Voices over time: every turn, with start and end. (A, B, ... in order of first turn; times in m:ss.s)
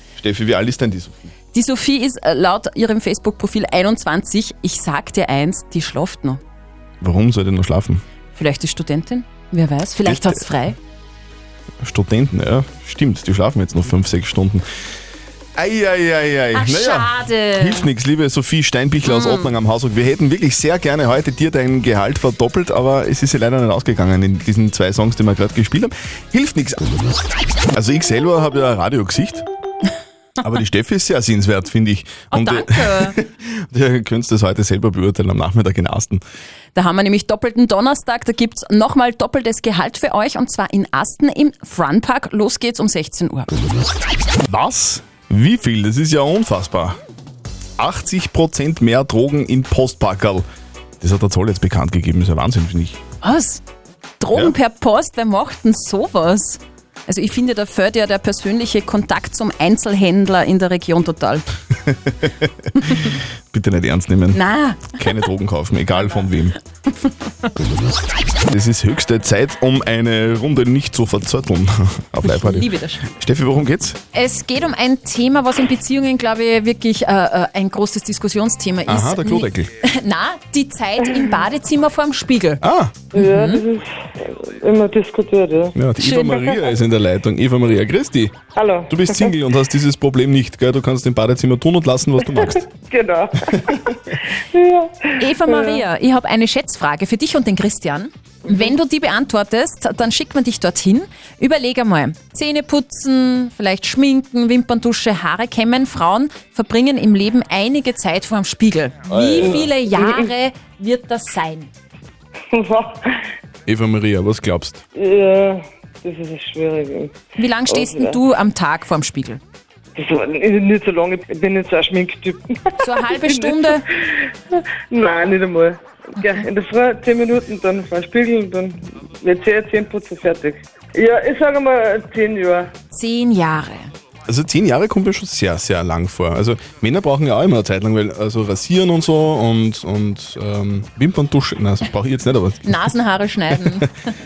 0:00.2-0:01.2 A
0:01.5-0:06.4 B
0:07.0-0:08.0 A
0:08.3-0:10.8 B
0:10.1-0:10.4 A
0:11.8-0:14.6 A
0:15.6-0:26.8 A
0:16.5-0:17.9 B
0:19.0-0:19.6 B
0:27.7-0:29.5 A
0:30.4-0:36.2 A
0:32.3-0:33.2 B
0:36.8-0:43.5 B
0:44.4-0:47.0 A
0:47.8-0:50.4 A
0:51.0-0:53.0 A
0:53.2-0:53.6 B
0:54.2-1:01.4 B
1:03.5-1:04.4 A
1:04.3-1:05.3 B
1:05.0-1:06.6 A
1:06.9-1:07.3 B
1:08.5-1:14.0 A
1:12.2-1:13.1 B
1:14.1-1:22.6 B
1:18.9-1:19.7 A
1:22.6-1:22.9 A
1:23.1-1:25.7 C
1:23.1-1:23.6 B
1:25.8-1:28.4 A
1:26.0-1:26.4 B
1:26.3-1:26.7 C
1:28.5-1:29.3 C
1:28.9-1:32.6 A
1:32.5-1:33.9 C
1:34.5-1:35.8 C
1:35.2-1:51.7 B
1:38.5-1:38.7 C
1:49.3-1:49.7 C
1:52.5-1:53.2 C
1:53.7-1:54.8 A
1:54.9-1:57.2 C
1:57.4-1:59.4 B
1:57.7-1:58.2 C
2:00.0-2:03.7 C
2:02.8-2:03.8 B
2:04.5-2:12.7 C
2:06.2-2:06.5 B
2:12.9-2:13.9 B
2:14.3-2:22.9 A
2:22.7-2:23.9 B